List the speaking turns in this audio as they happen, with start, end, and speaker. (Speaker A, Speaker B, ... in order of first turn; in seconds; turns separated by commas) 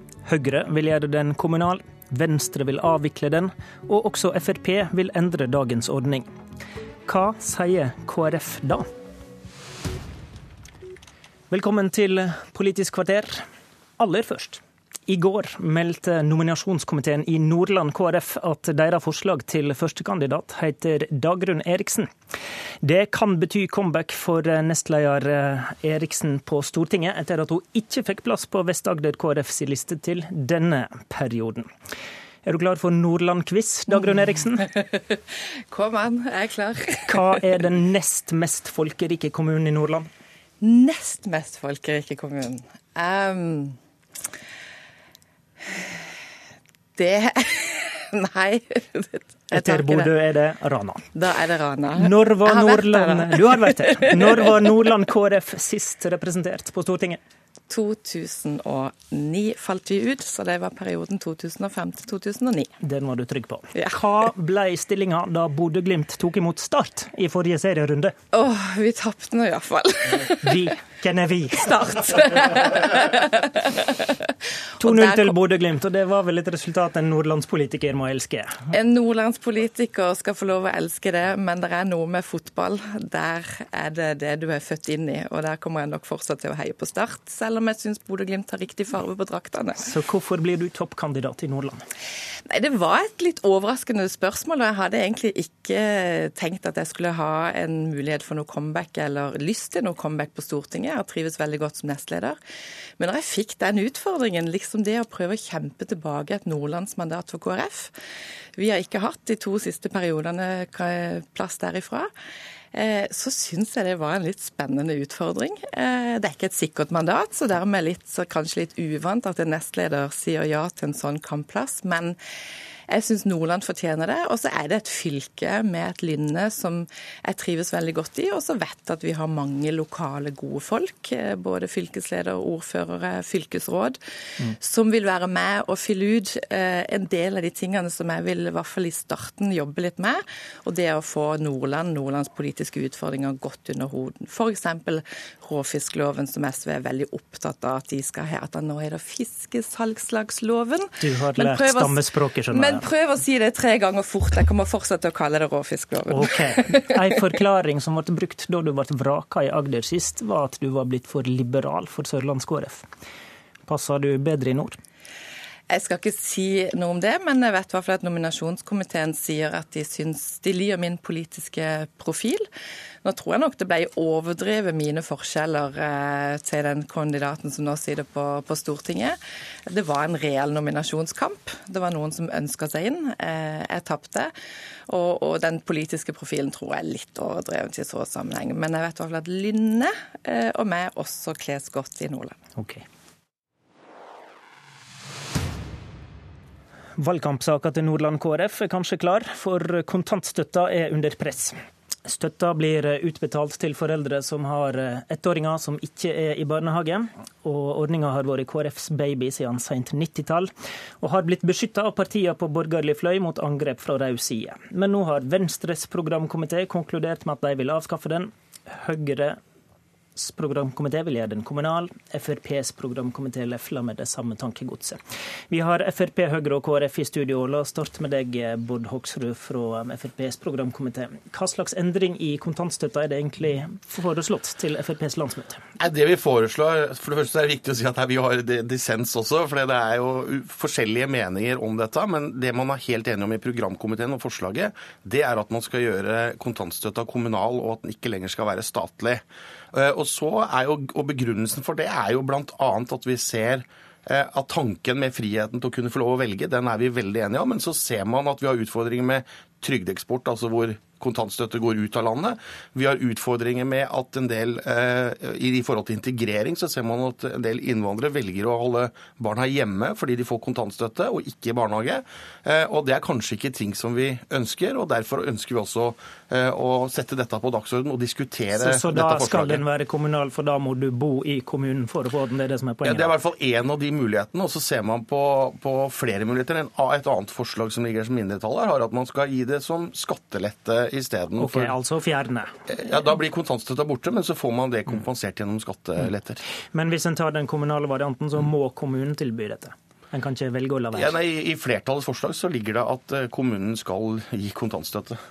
Speaker A: 0.2-6.3, Speaker A: 7.0-8.9, Speaker A: 11.5-13.4, Speaker A: 14.0-22.1, Speaker A: 22.8-31.7, Speaker A: 32.4-34.7, Speaker B: 34.6-35.2, Speaker B: 35.7-37.3, Speaker A: 37.0-40.1, Speaker B: 40.6-43.8, Speaker B: 47.0-50.1, Speaker A: 49.5-51.1, Speaker B: 51.1-54.5, Speaker A: 52.0-57.2, Speaker B: 57.7-62.7, Speaker A: 62.8-68.1, Speaker B: 63.7-64.0, Speaker B: 68.3-70.7, Speaker A: 70.4-71.9, Speaker B: 71.6-74.1, Speaker A: 74.8-78.5, Speaker B: 74.8-75.3, Speaker B: 78.7-89.9, Speaker A: 89.8-91.8, Speaker B: 92.5-102.4, Speaker B: 103.0-107.9, Speaker B: 108.6-112.1, Speaker B: 112.7-122.2, Speaker B: 122.9-134.0, Speaker B: 134.5-157.0, Speaker A: 151.0-152.8, Speaker A: 156.1-162.8, Speaker A: 163.7-164.8, Speaker B: 165.7-172.4, Speaker B: 173.0-179.2, Speaker B: 179.7-184.3, Speaker B: 184.9-192.3, Speaker A: 192.6-192.8, Speaker A: 197.0-219.4, Speaker A: 220.2-225.0, Speaker A: 225.5-235.6, Speaker C: 235.8-279.6, Speaker A: 278.5-283.1, Speaker C: 282.8-291.7, Speaker A: 291.4-292.5, Speaker C: 292.7-296.4, Speaker A: 296.7-301.1, Speaker C: 300.9-305.2